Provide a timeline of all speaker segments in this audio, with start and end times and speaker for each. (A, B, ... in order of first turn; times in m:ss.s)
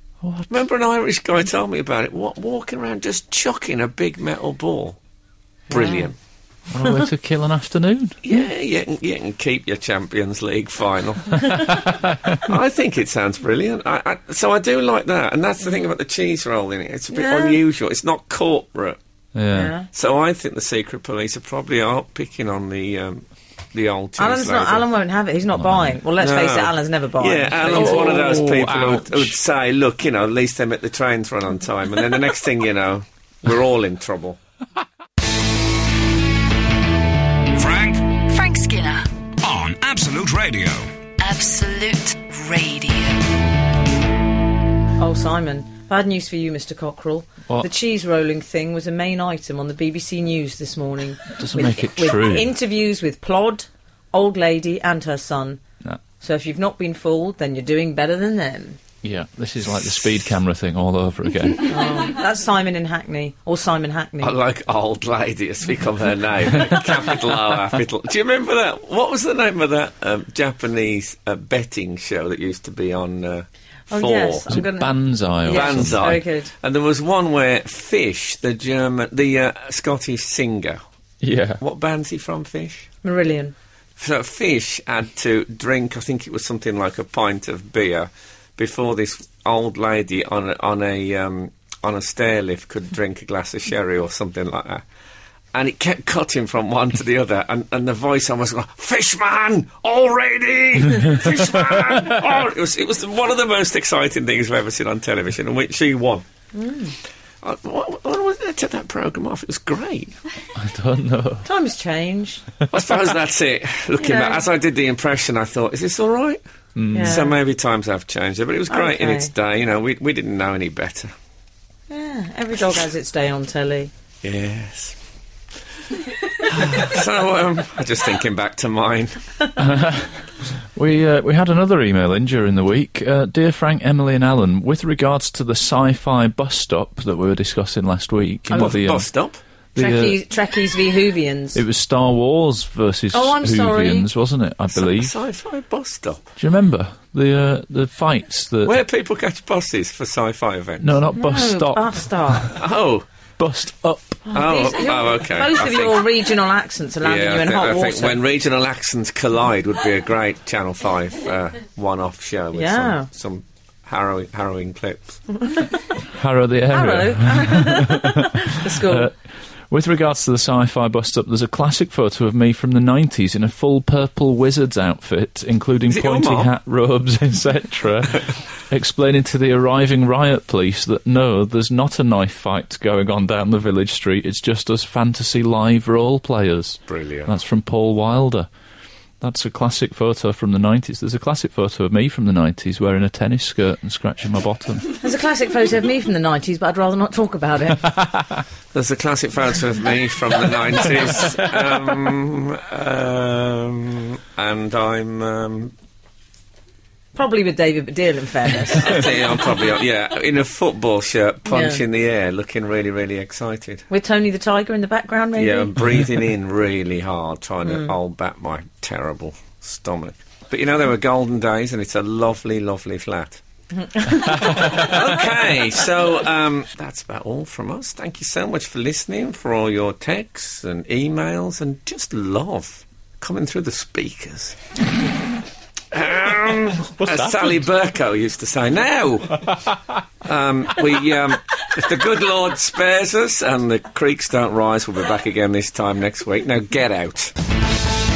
0:00.2-0:00.6 A
0:00.5-0:05.0 B
0:05.7-0:06.1 C
0:05.7-0:06.2 B
0:06.7-0:08.2 A
0:08.2-0:11.6 B
0:11.5-0:12.4 A
0:12.4-0:19.0 B
0:17.1-0:17.6 C
0:19.3-0:19.7 A
0:19.5-0:19.9 C
0:19.9-0:24.8 B
0:24.2-0:28.2 C
0:25.6-0:25.9 A
0:26.2-0:34.4 B
0:27.6-0:29.3 A
0:37.5-0:38.2 D
0:38.3-0:39.1 E
0:39.4-0:40.9 D
0:41.2-0:43.3 E
0:45.0-0:55.6 C
0:51.4-0:52.5 A
0:56.2-0:58.8 C
0:59.0-1:01.9 A
1:01.6-1:04.4 C
1:04.2-1:14.4 B
1:13.9-1:16.5 C
1:14.5-1:16.0 A
1:15.4-1:20.8 B
1:21.2-1:21.6 A
1:21.6-1:22.9 B
1:23.0-1:23.5 C
1:24.0-1:34.8 B
1:35.5-1:46.2 B
1:46.5-1:46.9 C
1:47.4-1:50.2 B
1:50.6-1:51.4 A
1:51.4-1:52.4 C
1:52.7-1:56.4 B
1:54.0-1:54.4 C
1:56.8-1:57.2 A
1:56.9-1:57.4 C
1:57.0-2:01.1 B
1:58.7-1:59.3 C
2:01.9-2:03.9 C
2:04.2-2:05.0 B
2:06.4-2:09.3 B
2:09.6-2:19.1 A
2:18.5-2:18.8 C
2:18.6-2:19.4 B
2:19.7-2:20.2 A
2:19.8-2:21.6 C
2:21.5-2:25.1 A
2:23.1-2:24.1 C
2:24.7-2:26.3 B
2:26.4-2:28.8 A
2:28.6-2:31.0 B
2:30.8-2:32.5 A
2:31.1-2:32.5 C
2:32.5-2:33.1 B
2:33.4-2:34.2 A
2:34.2-2:38.2 C
2:34.3-2:36.0 B
2:37.0-2:45.2 B
2:42.5-2:43.1 C
2:46.1-3:08.5 A
2:46.7-2:49.1 C
2:55.9-2:56.5 B
3:06.9-3:07.3 B
3:09.2-3:14.9 A
3:15.0-3:17.9 C
3:18.7-3:25.7 B
3:27.1-3:29.0 C
3:28.7-3:33.9 B
3:31.5-3:31.8 C
3:33.9-3:35.8 C
3:35.4-3:43.4 B
3:37.6-3:37.9 C
3:43.8-3:44.7 C
3:44.3-3:54.6 B
3:55.9-3:59.5 B
3:56.8-3:57.6 A
4:00.2-4:07.3 B